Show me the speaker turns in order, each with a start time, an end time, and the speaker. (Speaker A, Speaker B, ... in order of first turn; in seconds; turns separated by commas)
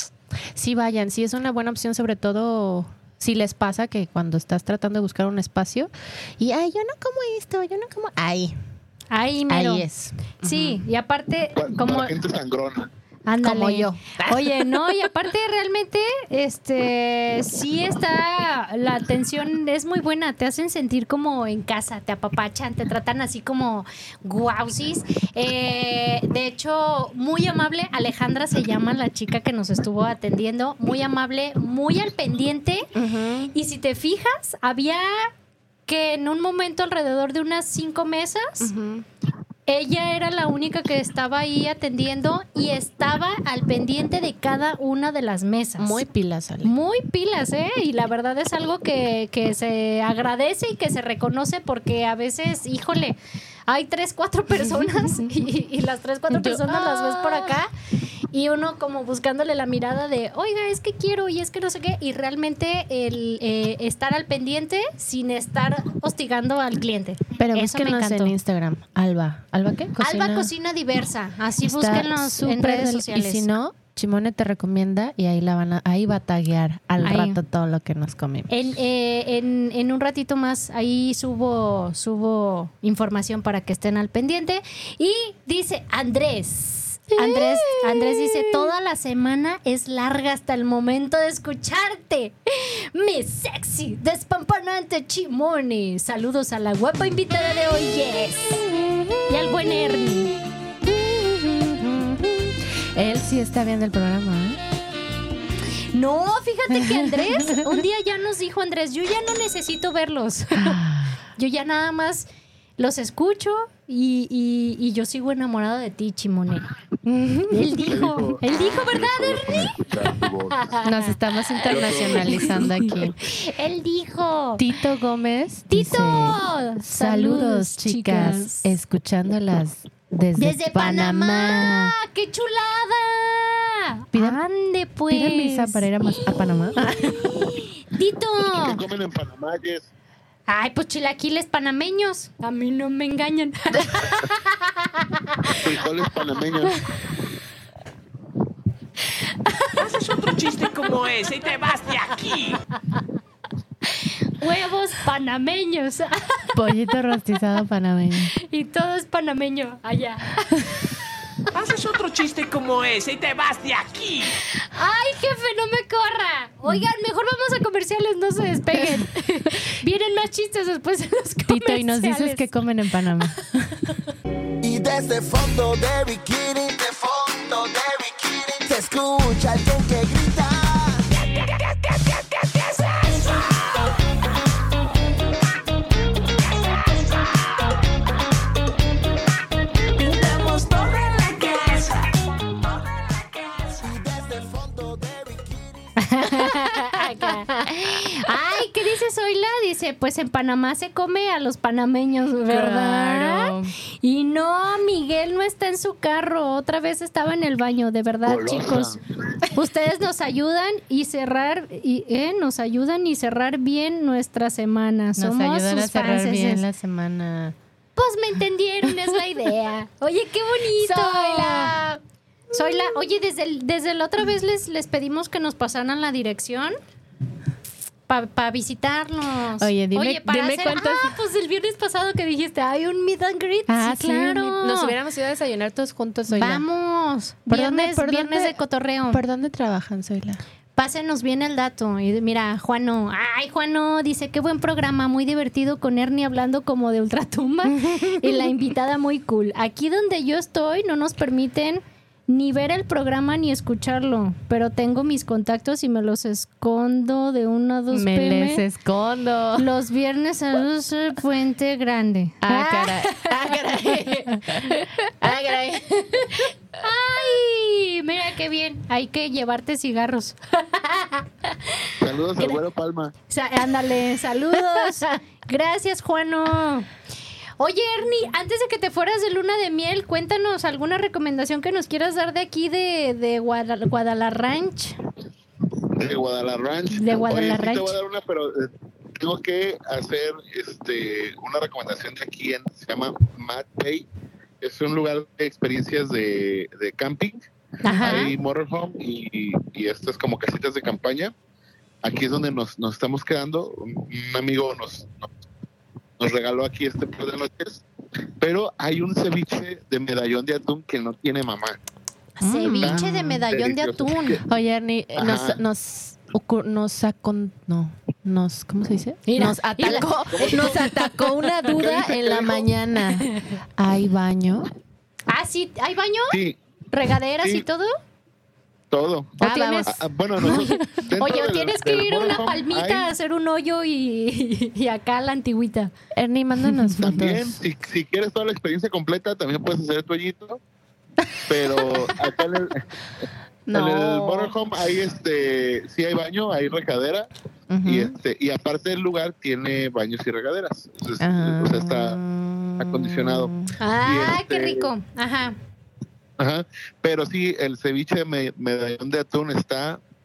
Speaker A: 0.5-8.6, Speaker B: 9.1-9.8, Speaker A: 9.5-10.8, Speaker B: 10.4-12.1, Speaker C: 11.5-12.9, Speaker B: 13.2-32.9, Speaker A: 13.4-14.7, Speaker A: 32.9-33.5, Speaker B: 33.5-35.3, Speaker B: 35.9-38.7, Speaker A: 38.6-39.0, Speaker B: 39.7-46.0, Speaker A: 45.8-46.7, Speaker B: 46.6-53.2, Speaker B: 53.7-57.7, Speaker A: 54.6-55.3, Speaker A: 56.3-57.6, Speaker B: 58.3-68.3, Speaker A: 67.4-70.5, Speaker B: 70.0-73.5, Speaker A: 71.6-78.5, Speaker B: 77.0-77.4, Speaker B: 78.5-98.7, Speaker A: 87.1-88.7, Speaker A: 98.6-100.3, Speaker B: 99.3-100.3, Speaker A: 100.8-104.6, Speaker B: 105.9-110.8, Speaker A: 106.7-107.8, Speaker A: 110.5-111.2, Speaker B: 111.3-112.3, Speaker B: 112.8-116.6, Speaker A: 117.0-117.8, Speaker B: 117.5-119.8, Speaker C: 117.9-120.6, Speaker B: 120.5-121.1, Speaker A: 120.8-123.2, Speaker C: 121.7-122.7, Speaker B: 122.0-124.6, Speaker A: 124.6-131.9, Speaker B: 125.7-128.8, Speaker B: 130.4-138.8, Speaker A: 134.1-134.4, Speaker A: 135.1-137.5, Speaker C: 138.6-139.9, Speaker B: 140.5-145.6, Speaker C: 145.5-146.8, Speaker D: 149.7-152.6, Speaker B: 154.4-156.6, Speaker A: 156.5-158.3, Speaker B: 158.4-160.9, Speaker D: 161.5-164.3, Speaker B: 164.6-172.5, Speaker A: 168.7-169.1, Speaker A: 171.5-173.9, Speaker E: 174.6-181.1, Speaker D: 183.0-183.4, Speaker D: 189.9-193.8, Speaker E: 193.8-196.6, Speaker B: 196.0-208.9, Speaker A: 202.5-203.7, Speaker C: 208.2-209.0, Speaker B: 209.5-216.6, Speaker A: 215.2-217.6, Speaker B: 217.9-222.0, Speaker A: 220.8-221.8, Speaker B: 222.5-226.8, Speaker A: 222.5-223.0, Speaker B: 228.1-234.9, Speaker A: 229.6-231.2, Speaker A: 233.7-236.6, Speaker B: 236.3-239.2, Speaker A: 237.5-238.6, Speaker A: 239.1-240.4, Speaker B: 240.8-258.6, Speaker A: 247.7-248.5, Speaker A: 257.9-259.7, Speaker B: 259.6-263.6, Speaker A: 262.4-266.5, Speaker B: 264.2-265.0, Speaker B: 266.4-272.6, Speaker C: 272.0-273.1, Speaker B: 273.3-276.9, Speaker A: 274.7-275.0, Speaker B: 277.6-285.0, Speaker C: 285.9-294.1, Speaker B: 286.9-287.9, Speaker C: 294.6-297.4, Speaker B: 297.8-298.3, Speaker A: 297.9-298.2, Speaker C: 298.0-301.3, Speaker C: 302.0-305.3, Speaker C: 306.2-307.8, Speaker C: 308.4-311.8, Speaker B: 312.4-314.4, Speaker A: 312.4-313.1, Speaker C: 312.8-314.4, Speaker A: 314.4-324.7, Speaker C: 315.1-315.6, Speaker B: 319.3-320.9, Speaker C: 319.9-320.8, Speaker C: 321.6-322.7, Speaker B: 325.3-326.4, Speaker C: 326.3-326.6, Speaker B: 326.9-327.9, Speaker C: 328.9-333.1, Speaker A: 329.4-330.7, Speaker B: 329.4-329.9, Speaker B: 330.4-335.9, Speaker A: 336.1-337.6, Speaker C: 337.0-340.6, Speaker C: 341.5-347.3, Speaker A: 341.5-342.1, Speaker A: 343.7-344.5, Speaker A: 347.7-348.1, Speaker C: 347.8-352.2, Speaker A: 351.2-353.7, Speaker C: 352.8-353.5, Speaker B: 353.8-355.6, Speaker C: 354.0-354.9, Speaker C: 356.4-360.0